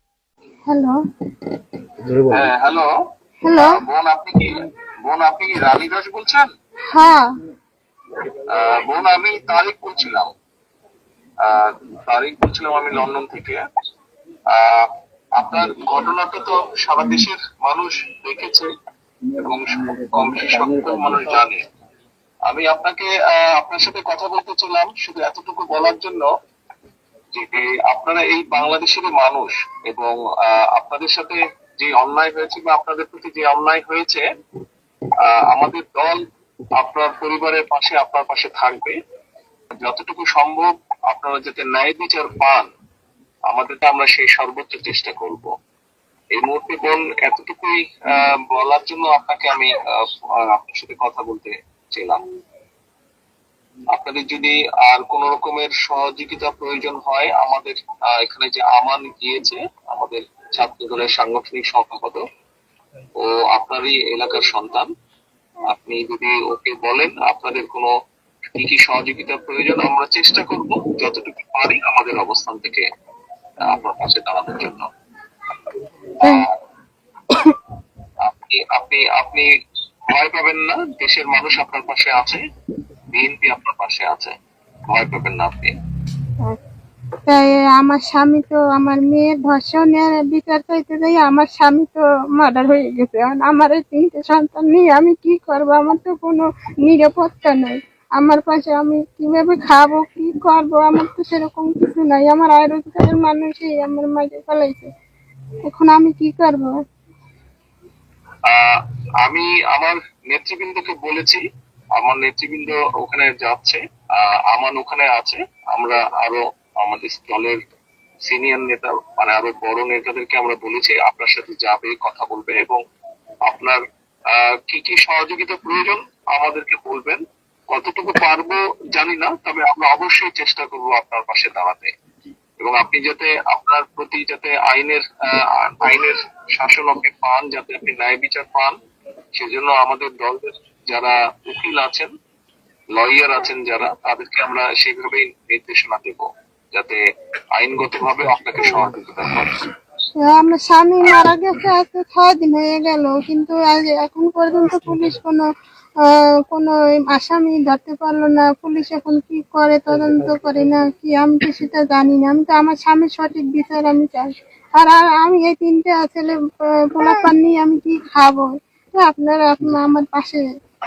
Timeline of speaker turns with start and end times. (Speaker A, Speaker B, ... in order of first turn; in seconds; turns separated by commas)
Speaker A: 0.7-1.0, Speaker B: 2.3-3.0, Speaker A: 3.4-3.8, Speaker B: 3.5-6.5, Speaker A: 6.9-7.3, Speaker B: 8.5-10.3, Speaker B: 11.4-13.6, Speaker B: 14.5-18.7, Speaker B: 19.3-21.6, Speaker B: 22.5-26.3, Speaker B: 27.3-34.2, Speaker B: 35.2-36.2, Speaker B: 36.8-39.0, Speaker B: 39.8-42.7, Speaker B: 43.5-45.5, Speaker B: 46.3-52.2, Speaker B: 53.9-62.2, Speaker B: 63.2-64.9, Speaker B: 65.7-67.9, Speaker B: 68.5-72.8, Speaker B: 73.6-74.9, Speaker B: 76.2-76.5, Speaker B: 78.2-79.5, Speaker B: 80.1-82.4, Speaker B: 83.1-84.3, Speaker B: 84.9-85.8, Speaker A: 87.3-104.9, Speaker A: 105.6-106.7, Speaker B: 108.5-111.4, Speaker B: 112.0-117.6, Speaker B: 118.3-122.8, Speaker B: 123.5-131.9, Speaker B: 132.6-138.8, Speaker B: 139.3-142.1, Speaker B: 142.9-147.0, Speaker B: 147.6-149.7, Speaker A: 150.2-155.4, Speaker A: 156.0-166.3, Speaker A: 166.9-170.4